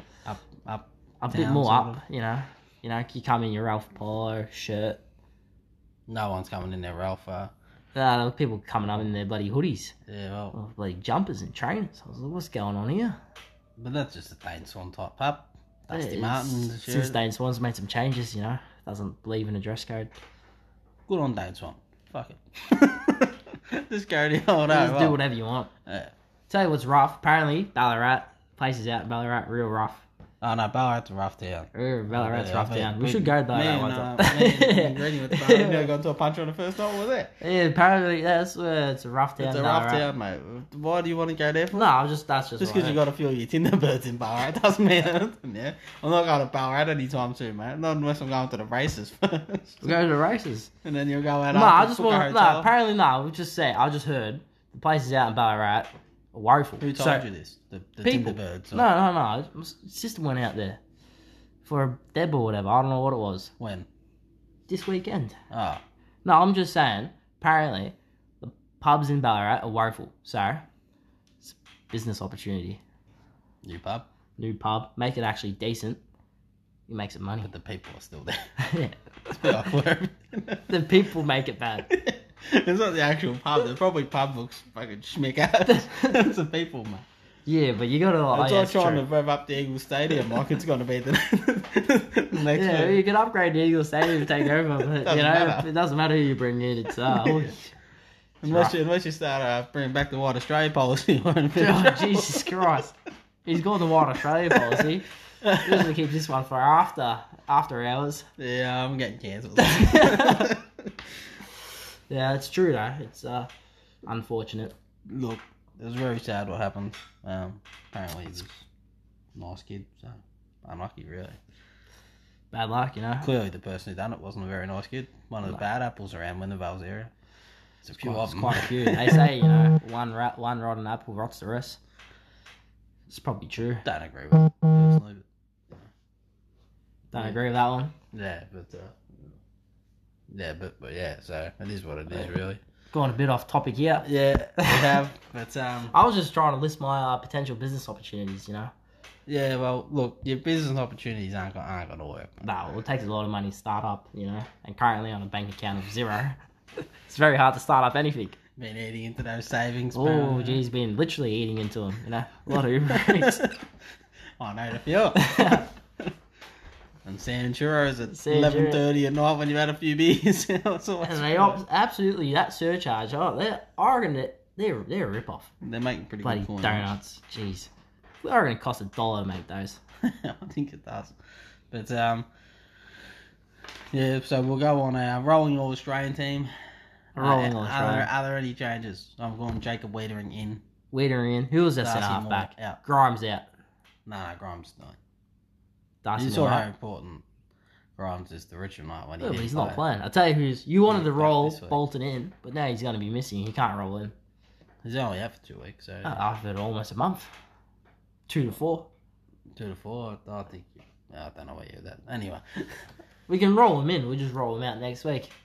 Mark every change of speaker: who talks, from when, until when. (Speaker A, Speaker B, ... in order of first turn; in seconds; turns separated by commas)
Speaker A: 0.2-2.0, Speaker B: 1.2-5.0, Speaker A: 6.1-7.5, Speaker B: 7.9-9.9, Speaker A: 10.1-10.6, Speaker B: 10.5-13.2, Speaker A: 13.8-17.2, Speaker B: 15.9-20.1, Speaker A: 21.1-25.2, Speaker B: 24.7-25.7, Speaker A: 25.9-26.1, Speaker B: 26.5-30.0, Speaker A: 30.4-37.3, Speaker B: 31.7-35.9, Speaker B: 37.4-40.0, Speaker A: 39.4-41.9, Speaker B: 41.7-43.0, Speaker A: 42.6-50.0, Speaker B: 49.8-50.7, Speaker A: 50.8-52.7, Speaker B: 51.5-57.2, Speaker A: 56.8-58.9, Speaker B: 58.0-60.8, Speaker B: 61.6-63.5, Speaker A: 63.6-63.9, Speaker B: 64.7-65.4, Speaker A: 65.5-65.8, Speaker B: 66.2-70.7, Speaker B: 71.4-72.8, Speaker A: 73.6-74.1, Speaker B: 74.4-76.0, Speaker B: 76.9-77.5, Speaker A: 77.4-78.5, Speaker B: 78.6-79.7, Speaker A: 79.3-80.9, Speaker B: 80.7-81.9, Speaker A: 81.9-87.0, Speaker B: 85.7-86.3, Speaker B: 87.5-89.0, Speaker A: 88.3-93.0, Speaker B: 92.5-97.7, Speaker A: 94.0-95.7, Speaker A: 97.0-97.5, Speaker A: 98.4-102.8, Speaker B: 98.4-98.7, Speaker B: 101.6-102.9, Speaker B: 103.4-105.1, Speaker A: 104.1-104.9, Speaker A: 105.4-105.9, Speaker B: 105.6-108.3, Speaker A: 108.4-110.9, Speaker B: 109.6-110.5, Speaker B: 112.1-113.5, Speaker B: 114.0-114.7, Speaker A: 115.1-118.7, Speaker A: 119.3-121.4, Speaker B: 122.5-123.3, Speaker A: 123.2-127.1, Speaker A: 127.8-129.3, Speaker B: 127.9-131.8, Speaker B: 133.1-133.8, Speaker A: 133.8-135.9, Speaker A: 137.1-137.4, Speaker B: 137.1-137.9, Speaker A: 138.1-139.0, Speaker A: 140.3-142.6, Speaker B: 142.9-144.1, Speaker A: 144.0-145.9, Speaker B: 144.6-145.0, Speaker B: 145.9-148.7, Speaker A: 149.3-152.5, Speaker B: 152.4-156.4, Speaker B: 157.0-158.4, Speaker A: 158.6-160.6, Speaker B: 159.9-163.4, Speaker A: 162.9-163.6, Speaker A: 164.4-165.7, Speaker B: 165.1-165.7, Speaker A: 167.0-171.6, Speaker B: 168.1-168.8, Speaker B: 171.0-175.5, Speaker A: 175.6-176.9, Speaker B: 176.2-177.7, Speaker B: 178.2-179.8, Speaker A: 180.0-181.1, Speaker A: 181.7-182.3, Speaker A: 183.9-186.5, Speaker A: 187.1-190.6, Speaker B: 187.2-188.1, Speaker B: 190.9-193.5, Speaker A: 191.8-192.8, Speaker A: 194.1-195.0, Speaker B: 196.0-196.7, Speaker A: 196.2-197.2, Speaker A: 198.0-199.8, Speaker B: 199.2-204.1, Speaker A: 200.8-201.8, Speaker A: 204.8-206.2, Speaker B: 206.0-207.3, Speaker B: 208.3-208.9, Speaker A: 209.6-212.8, Speaker B: 213.3-215.3